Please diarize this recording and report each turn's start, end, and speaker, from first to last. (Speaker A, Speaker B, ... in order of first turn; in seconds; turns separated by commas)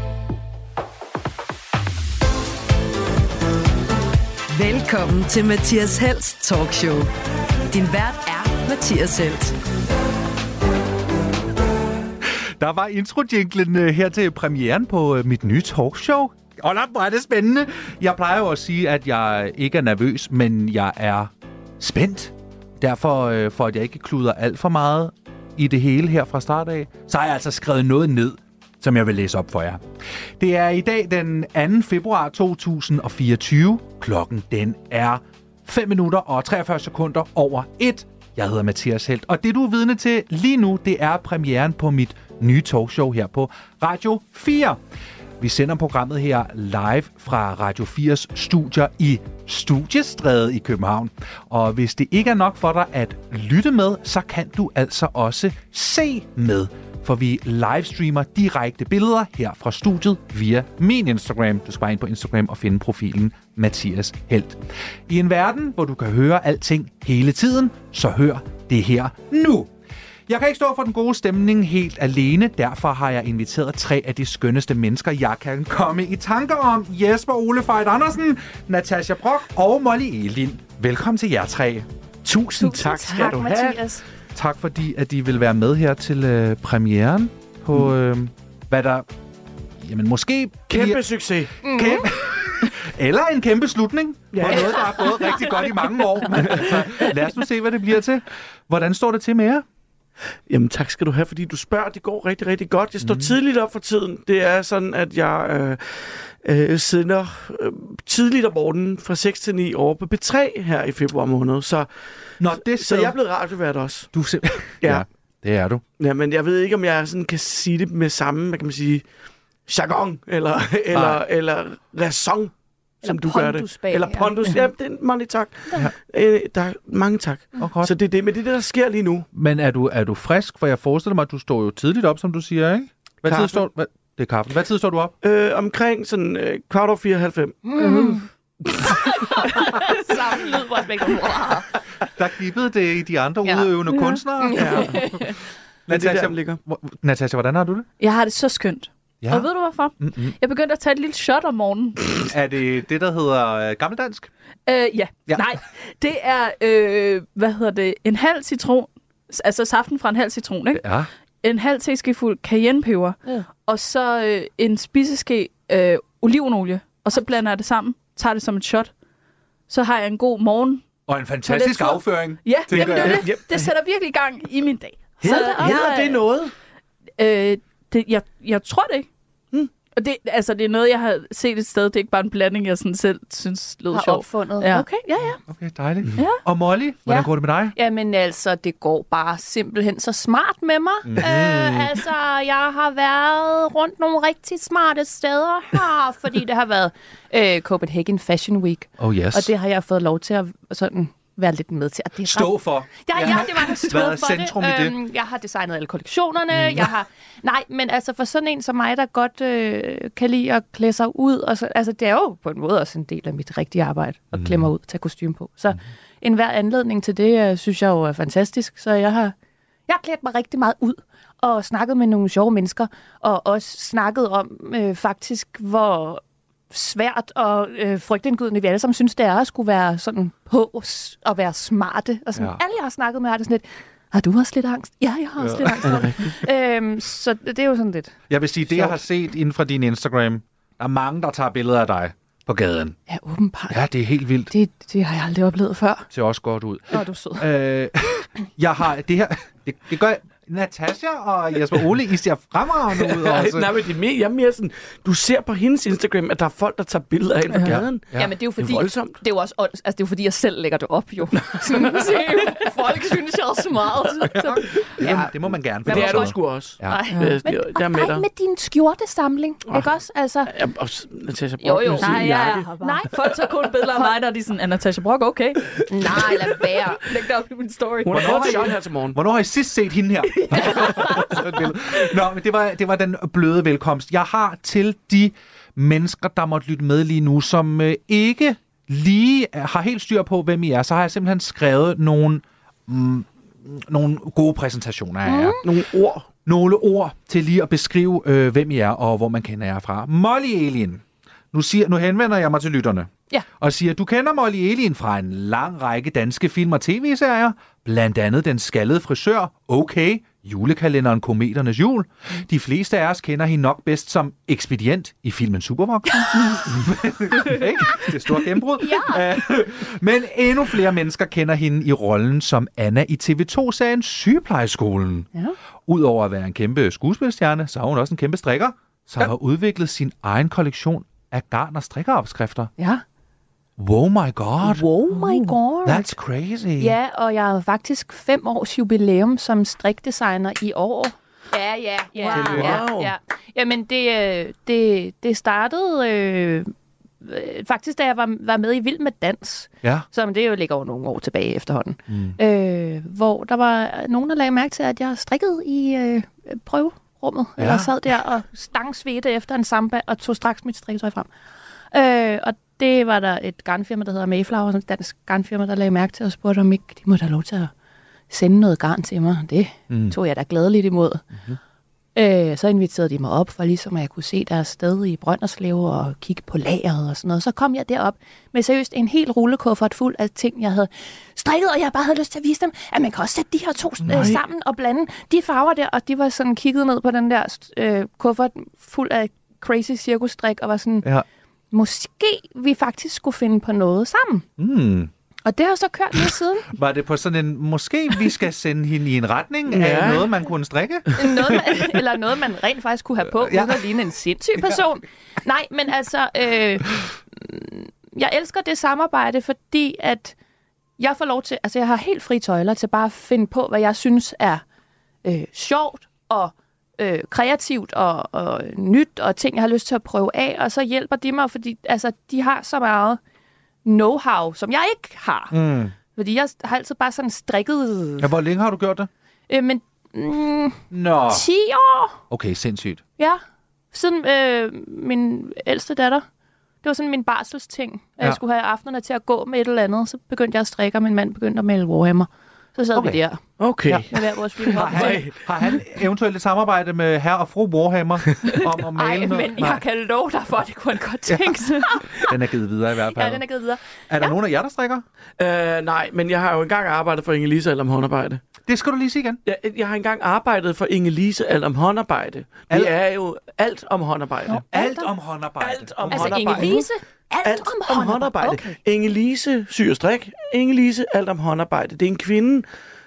Speaker A: 4.5-7.1, Speaker A: 7.7-9.6, Speaker B: 12.2-29.8, Speaker B: 30.4-44.8, Speaker B: 45.4-69.7, Speaker B: 70.3-81.9, Speaker C: 82.2-83.8, Speaker D: 82.6-84.0, Speaker B: 84.3-89.1, Speaker B: 89.8-91.0, Speaker C: 90.7-91.5, Speaker B: 91.6-99.6, Speaker D: 91.6-92.1, Speaker C: 94.3-94.9, Speaker D: 94.5-95.6, Speaker C: 96.4-96.8, Speaker C: 100.5-114.1, Speaker B: 103.0-103.4, Speaker B: 112.4-113.2, Speaker B: 114.1-115.8, Speaker C: 114.8-115.1, Speaker C: 116.0-119.0, Speaker C: 119.7-129.3, Speaker B: 120.9-121.2, Speaker D: 123.0-124.7, Speaker B: 127.6-128.0, Speaker B: 129.3-135.1, Speaker C: 133.3-133.7, Speaker C: 135.2-139.6, Speaker D: 137.6-138.2, Speaker E: 137.8-138.2, Speaker D: 138.9-141.7, Speaker B: 142.1-145.3, Speaker D: 143.4-143.7, Speaker D: 144.4-145.4, Speaker C: 144.5-145.3, Speaker B: 145.8-147.9, Speaker C: 145.9-146.6, Speaker E: 148.0-152.2, Speaker B: 149.2-150.3, Speaker B: 152.2-154.3, Speaker E: 154.7-160.9, Speaker B: 160.7-161.1, Speaker E: 161.4-168.9, Speaker E: 169.7-170.8, Speaker B: 171.1-173.3, Speaker E: 171.4-176.2, Speaker C: 172.7-173.7, Speaker C: 175.2-176.5, Speaker D: 175.2-175.8, Speaker E: 177.2-179.1, Speaker E: 179.9-184.8, Speaker D: 183.9-185.4, Speaker B: 185.5-187.8, Speaker E: 186.2-186.4, Speaker D: 187.1-219.3, Speaker B: 191.0-191.9, Speaker B: 199.0-199.5, Speaker B: 202.2-204.9, Speaker B: 206.5-206.9, Speaker B: 214.3-214.7, Speaker D: 219.9-238.2, Speaker B: 235.4-236.2, Speaker C: 235.8-236.3, Speaker B: 238.3-243.0, Speaker D: 238.7-238.9, Speaker D: 243.1-243.8, Speaker B: 243.7-244.5, Speaker D: 244.5-246.1, Speaker B: 246.1-253.8, Speaker D: 246.9-247.5, Speaker C: 252.9-259.2, Speaker E: 257.5-257.8, Speaker B: 257.6-258.3, Speaker D: 258.1-265.3, Speaker C: 261.7-262.0, Speaker B: 264.3-267.0, Speaker C: 265.8-268.2, Speaker D: 265.9-270.6, Speaker E: 267.1-267.4, Speaker C: 270.5-272.7, Speaker D: 271.6-274.2, Speaker E: 272.0-278.8, Speaker D: 275.9-277.0, Speaker C: 278.0-279.2, Speaker B: 278.1-295.6, Speaker E: 280.3-281.7, Speaker D: 280.6-281.2, Speaker D: 295.2-295.6, Speaker C: 295.6-296.3, Speaker B: 296.4-325.3, Speaker D: 316.2-316.6, Speaker D: 318.8-319.3, Speaker B: 325.9-332.7, Speaker D: 332.8-333.0, Speaker B: 333.8-334.9, Speaker D: 334.6-336.1, Speaker E: 335.1-335.5, Speaker B: 335.8-337.0, Speaker D: 336.8-361.3, Speaker C: 342.2-343.1, Speaker B: 342.3-342.9, Speaker B: 352.1-352.4, Speaker B: 357.6-357.9, Speaker D: 361.9-367.7, Speaker D: 368.3-371.2, Speaker B: 369.9-370.1, Speaker D: 372.1-391.1, Speaker B: 384.0-384.4, Speaker D: 391.7-394.4, Speaker B: 394.6-395.1, Speaker D: 395.4-396.7, Speaker B: 396.7-402.0, Speaker C: 399.7-400.3, Speaker D: 401.1-410.3, Speaker B: 403.2-403.8, Speaker D: 411.0-414.6, Speaker D: 415.2-423.2, Speaker D: 423.8-425.6, Speaker B: 425.5-425.9, Speaker D: 426.1-428.3, Speaker B: 428.2-429.1, Speaker D: 429.5-432.2, Speaker B: 430.9-431.4, Speaker B: 432.3-433.0, Speaker D: 433.2-436.2, Speaker D: 436.8-443.4, Speaker B: 442.9-443.2, Speaker C: 443.6-445.3, Speaker B: 443.9-449.8, Speaker D: 444.1-445.2, Speaker D: 448.9-452.3, Speaker B: 451.3-453.4, Speaker D: 453.1-454.4, Speaker B: 454.0-455.0, Speaker C: 455.4-458.4, Speaker B: 458.6-459.4, Speaker C: 459.4-464.6, Speaker B: 462.7-462.9, Speaker B: 464.5-466.8, Speaker D: 464.5-465.1, Speaker C: 465.6-466.9, Speaker D: 466.1-468.8, Speaker C: 467.4-472.6